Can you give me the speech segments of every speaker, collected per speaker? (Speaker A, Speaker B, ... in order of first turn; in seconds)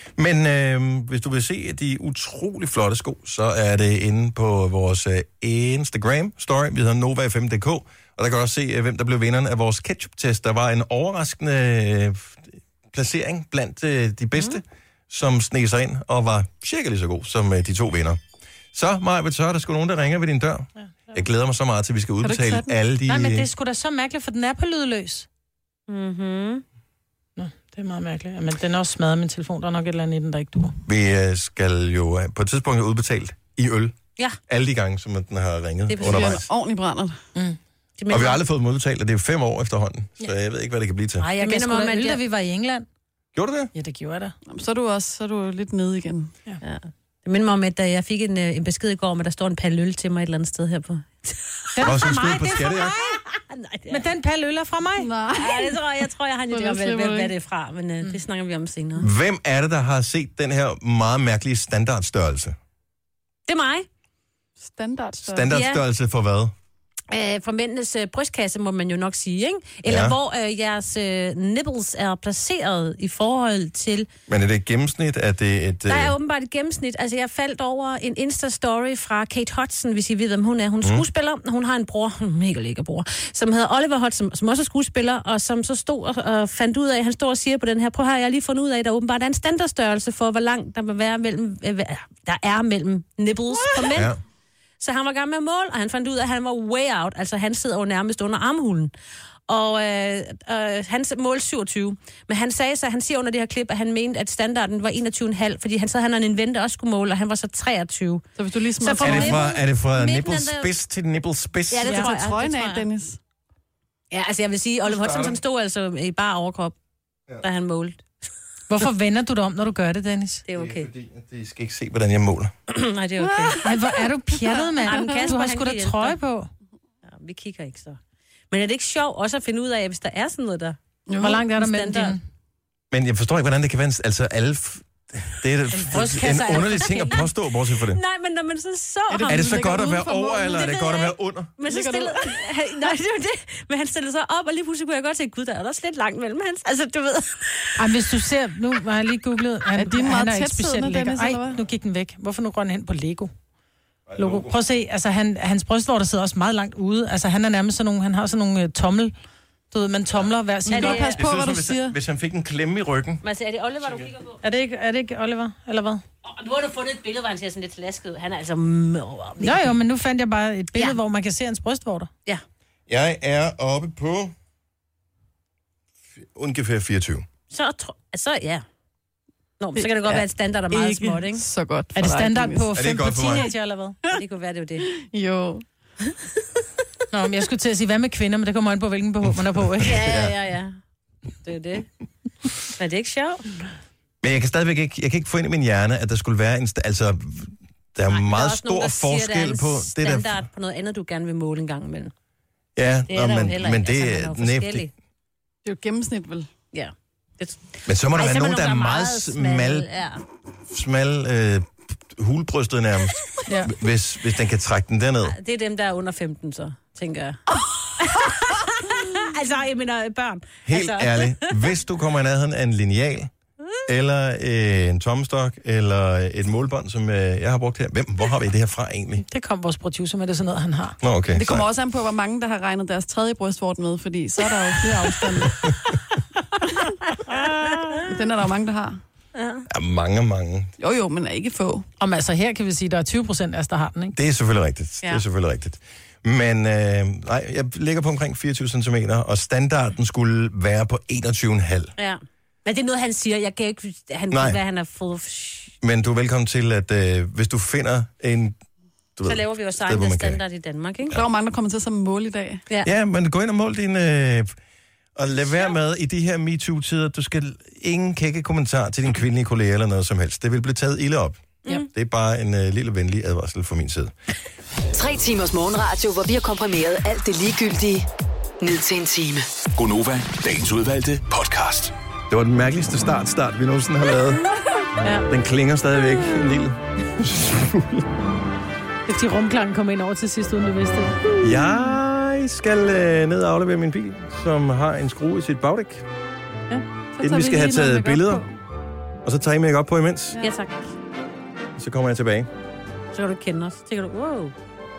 Speaker A: 0.2-18.2, 18.7-23.5, 30.8-34.0, 34.5-36.5, 38.1-41.3, 43.3-43.7, 51.8-52.9, 59.0-62.5, 65.2-66.5, 69.8-70.2, 74.3-76.1, 93.9-94.2, 109.0-112.0, 114.8-115.4, 120.5-122.5, 132.9-138.0, 139.3-141.5, 154.1-154.6, 161.1-163.2, 163.8-164.1, 172.9-174.3, 176.2-177.2, 182.7-183.4, 189.2-190.3, 194.2-200.5, 202.8-204.9, 207.8-209.9, 210.7-215.3, 220.7-223.3, 223.8-229.2, 231.0-231.7, 235.5-235.7, 239.7-240.7, 244.1-251.9, 254.3-254.6, 255.8-258.6, 259.1-260.4, 262.8-264.5, 265.1-274.1, 282.3-284.5, 285.3-288.1, 291.4-296.0, 297.2-298.4, 299.2-300.4, 301.8-302.5
Speaker B: 22.2-22.7, 36.0-37.2, 44.5-46.3, 55.0-55.8, 56.5-57.3, 64.6-65.5, 108.4-109.4, 111.9-113.2, 123.2-123.7, 124.4-125.2, 131.1-131.4, 139.1-140.7, 141.6-142.4, 149.8-151.6, 160.7-161.9, 179.8-182.7, 184.9-185.6, 205.6-206.5, 231.3-235.8, 237.7-239.0, 240.8-241.8, 261.1-262.6, 297.1-298.5
Speaker C: 23.1-25.3, 27.4-30.8, 41.2-42.9, 43.7-44.3, 51.7-53.2, 53.9-55.1, 118.7-120.4, 123.6-126.5, 131.2-132.2, 135.9-136.3, 147.8-153.3, 154.2-159.1, 159.7-161.0, 164.4-166.0, 169.4-172.1, 181.9-184.0, 187.1-190.0, 213.5-213.7, 229.2-231.0, 242.0-244.1, 289.1-291.3
Speaker D: 25.9-26.6, 35.9-36.4, 38.0-38.4, 41.4-42.2, 46.6-51.6, 53.3-54.1, 55.4-59.1, 63.5-63.9, 65.5-65.8, 67.1-74.1, 75.9-94.1, 94.8-98.9, 99.5-108.2, 108.8-110.7, 111.7-112.9, 114.1-116.7, 117.4-118.3, 120.5-120.9, 122.7-123.6, 124.8-126.2, 127.0-128.0, 128.5-130.8, 131.6-132.2, 135.8-137.3, 137.9-139.8, 140.4-147.8, 160.7-161.2, 163.2-164.4, 166.2-169.8, 177.5-178.6, 179.6-181.4, 184.1-184.9, 189.8-190.8, 191.4-191.9, 192.7-193.5, 198.1-202.1, 203.1-204.9, 206.7-210.2, 215.2-217.4, 218.0-221.7, 239.3-239.6, 252.0-255.7, 259.2-261.2, 300.4-300.9, 303.1-304.5
Speaker E: 274.9-278.1, 278.6-279.4
Speaker F: 279.8-281.9